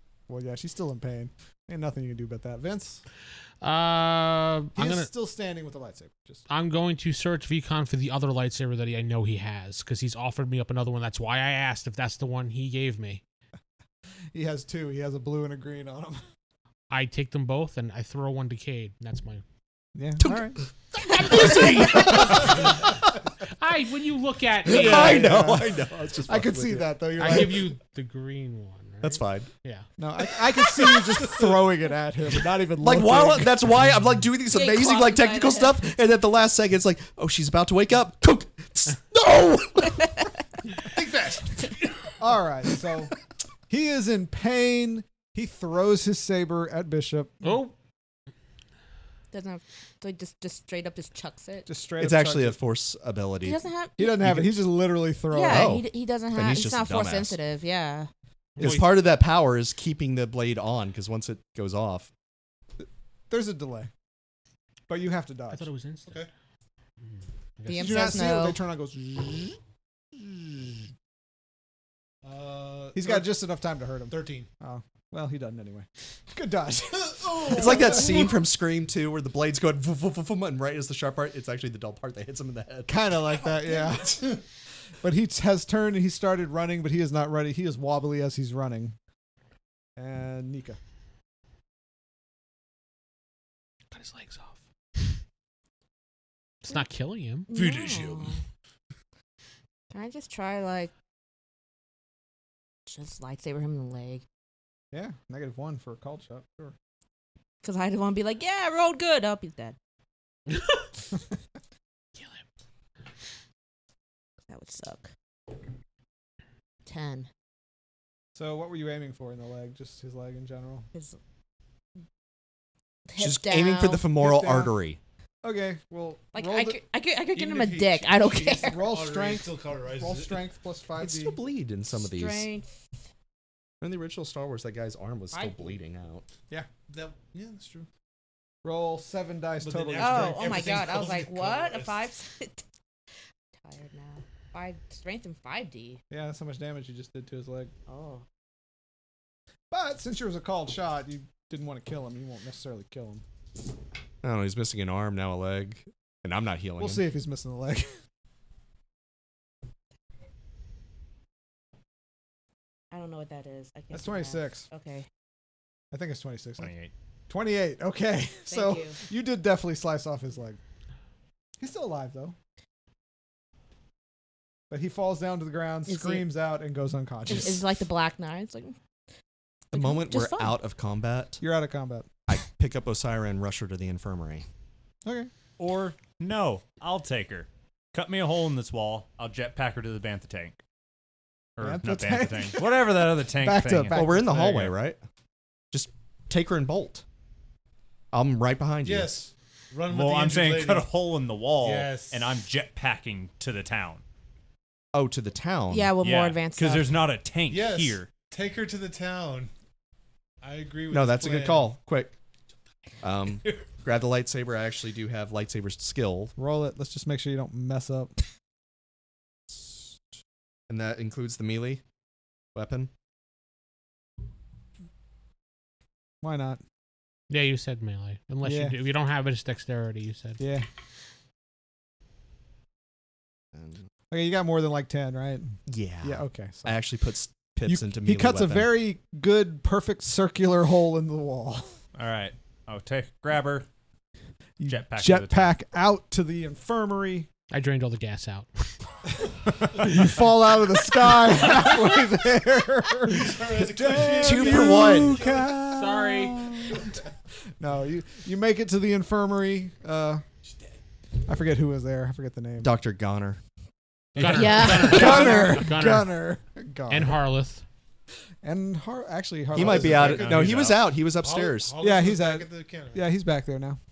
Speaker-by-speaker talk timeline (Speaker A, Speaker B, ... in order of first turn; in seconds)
Speaker A: 0.3-3.0, 4.7-6.4, 14.3-16.2, 19.9-20.6, 21.2-22.7, 24.7-27.7, 30.0-33.7, 42.2-43.1, 43.7-47.6, 51.7-52.6, 54.0-55.7, 62.8-63.9, 64.9-65.7, 67.7-69.6, 70.1-70.8, 72.9-78.2, 82.9-84.4, 85.0-89.0, 90.0-90.8, 104.9-106.7, 118.3-120.9, 124.2-124.7, 125.4-126.8, 128.7-131.4, 138.6-140.7, 146.1-147.7, 149.7-153.2, 156.8-157.9, 163.9-164.7, 165.9-166.7, 167.3-170.6, 171.6-172.3, 174.7-177.6, 181.4-182.1, 185.0-185.3, 191.6-194.4, 216.4-218.2, 226.2-226.6, 228.4-228.8, 230.4-230.7, 234.1-236.8, 237.7-241.7, 244.6-247.3, 249.6-257.0, 257.6-260.2, 261.2-262.7, 264.8-267.2, 268.4-270.3, 271.8-273.8
Speaker B: 3.6-5.1, 6.5-13.2, 16.9-19.4, 21.4-22.1, 23.4-25.5, 27.2-29.9, 47.4-47.7, 58.5-58.9, 65.5-66.3, 67.0-68.2, 93.9-94.6, 96.6-97.6, 110.5-110.9, 112.2-112.4, 227.3-230.4, 247.5-248.7, 255.7-256.6, 264.2-266.2, 266.9-267.6
Speaker C: 20.2-22.6, 24.6-27.5, 29.0-29.5, 32.8-40.1, 52.0-54.6, 55.4-57.4, 58.6-62.1, 77.4-83.1, 123.2-125.0, 131.0-132.5, 133.8-136.3, 154.2-157.0, 179.7-181.4, 182.3-184.4, 193.9-195.0, 195.7-197.0, 198.1-199.2, 204.9-205.9, 210.9-212.1, 213.0-216.3, 220.7-221.8, 222.5-222.9, 233.5-233.8, 235.7-238.7, 254.0-255.2, 262.6-263.4, 269.5-271.7
Speaker D: 21.0-22.1, 34.5-35.9, 49.3-51.7, 53.4-54.3, 55.3-58.1, 67.7-68.6, 97.5-98.4, 99.9-100.9, 102.8-104.2, 107.6-109.8, 114.5-115.1, 116.8-117.3, 123.0-124.1, 126.3-128.9, 131.9-132.7, 135.3-135.8, 140.0-142.6, 143.6-146.0, 147.9-148.2, 162.9-165.1, 168.5-169.0, 175.9-176.3, 177.3-178.8, 179.7-180.6, 205.7-206.9, 264.3-265.5
Speaker E: 40.7-42.2, 72.2-73.4, 74.1-74.5, 77.0-78.3, 83.9-84.4, 97.5-98.3, 127.3-130.4, 136.9-137.9, 139.6-142.0, 198.8-200.9, 201.6-202.3, 207.5-209.5, 210.4-211.7, 253.1-255.5, 264.3-265.1, 269.5-273.1
Speaker F: 166.6-166.9, 185.6-190.6, 191.6-194.7, 199.9-204.0, 206.0-208.1, 241.9-243.7, 244.7-245.5, 264.1-264.9, 270.0-270.9